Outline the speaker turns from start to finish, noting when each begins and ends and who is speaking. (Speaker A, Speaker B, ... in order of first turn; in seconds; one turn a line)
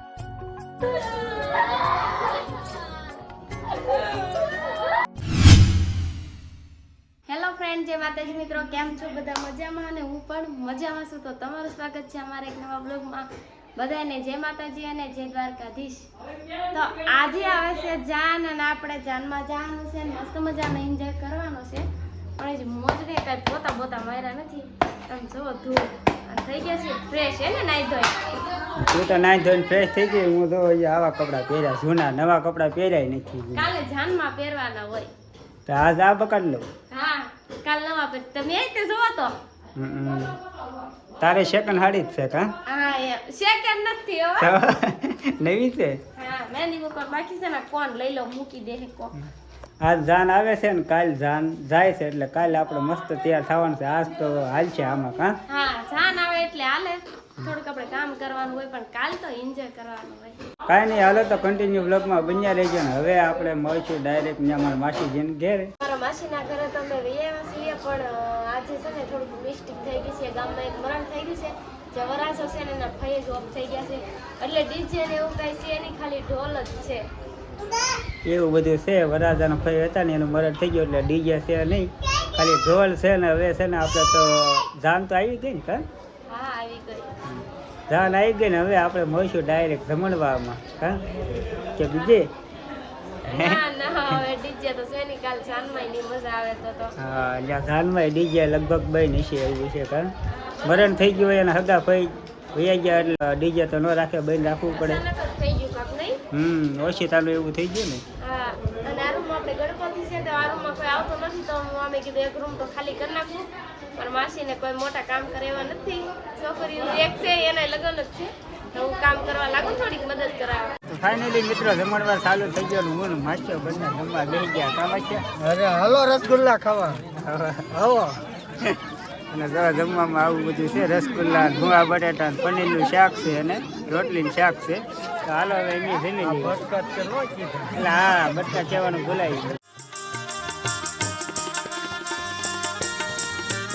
Speaker A: 7.3-16.1
Speaker A: 16.7-21.9
Speaker A: 22.4-28.4
Speaker B: 28.8-33.7
Speaker A: 33.5-35.1
Speaker B: 35.7-36.7
Speaker A: 36.9-39.4
Speaker B: 39.8-40.4
Speaker B: 41.2-42.5
Speaker A: 42.7-44.6
Speaker B: 44.4-46.0
Speaker A: 46.2-49.1
Speaker B: 49.8-55.3
Speaker A: 55.5-60.4
Speaker B: 60.7-65.7
Speaker A: 65.8-77.1
Speaker B: 78.2-85.8
Speaker A: 86.3-87.1
Speaker B: 87.2-91.1
Speaker B: 91.8-92.3
Speaker A: 93.2-96.9
Speaker B: 93.3-94.2
Speaker B: 97.0-100.1
Speaker A: 100.3-101.0
Speaker B: 100.6-105.0
Speaker A: 104.7-106.2
Speaker B: 106.3-108.0
Speaker A: 108.2-120.8
Speaker B: 120.9-125.3
Speaker C: 125.4-127.0
Speaker B: 127.0-128.8
Speaker B: 129.3-136.6
Speaker C: 136.5-137.6
Speaker B: 137.7-139.5